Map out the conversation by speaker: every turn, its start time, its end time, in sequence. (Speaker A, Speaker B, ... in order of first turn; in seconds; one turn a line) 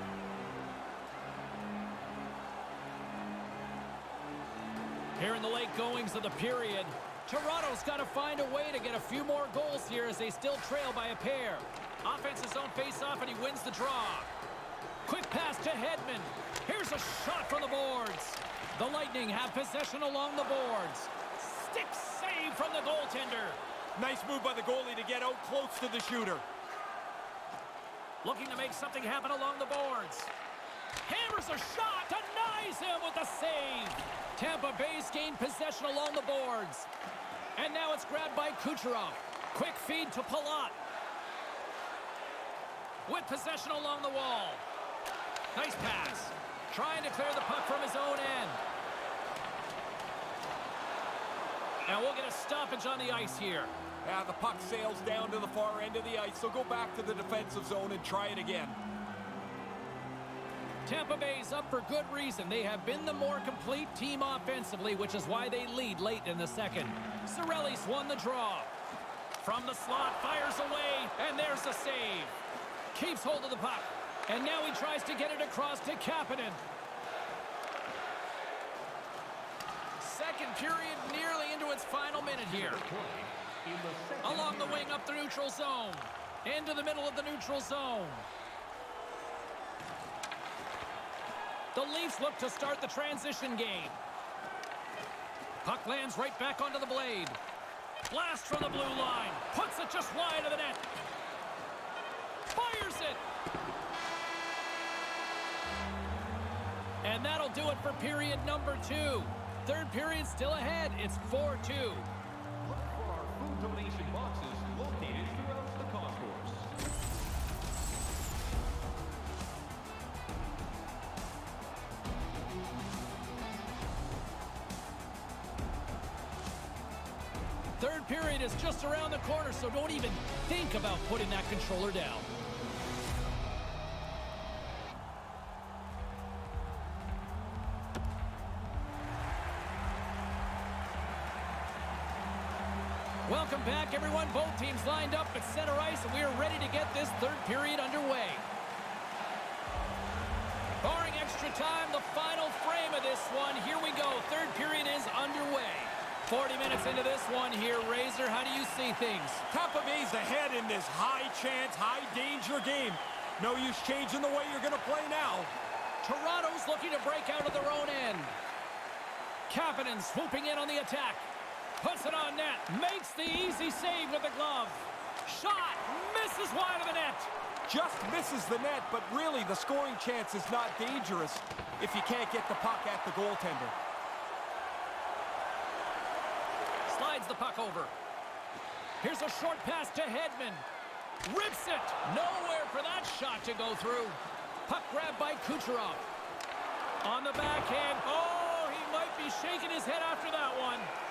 Speaker A: 5.2-14.3
Speaker A: 15.1-23.6
Speaker B: 23.9-26.4
Speaker A: 28.2-30.3
Speaker A: 31.0-36.9
Speaker A: 37.5-40.7
Speaker A: 43.0-44.6
Speaker A: 45.5-48.6
Speaker A: 51.9-53.7
Speaker B: 54.0-58.8
Speaker A: 60.9-68.7
Speaker A: 69.4-72.3
Speaker A: 72.9-76.6
Speaker A: 80.0-82.8
Speaker C: 82.2-85.0
Speaker A: 84.2-88.3
Speaker A: 91.7-94.0
Speaker A: 95.6-97.4
Speaker A: 98.1-100.8
Speaker A: 102.5-103.2
Speaker A: 107.0-112.1
Speaker C: 112.6-116.7
Speaker A: 127.8-132.2
Speaker A: 143.2-148.4
Speaker A: 150.8-159.4
Speaker B: 159.5-165.5
Speaker A: 166.0-168.4
Speaker A: 169.5-171.3
Speaker A: 171.8-177.3
Speaker B: 177.7-183.8
Speaker A: 186.9-187.9
Speaker A: 189.0-190.6
Speaker A: 191.2-196.0
Speaker A: 197.0-200.9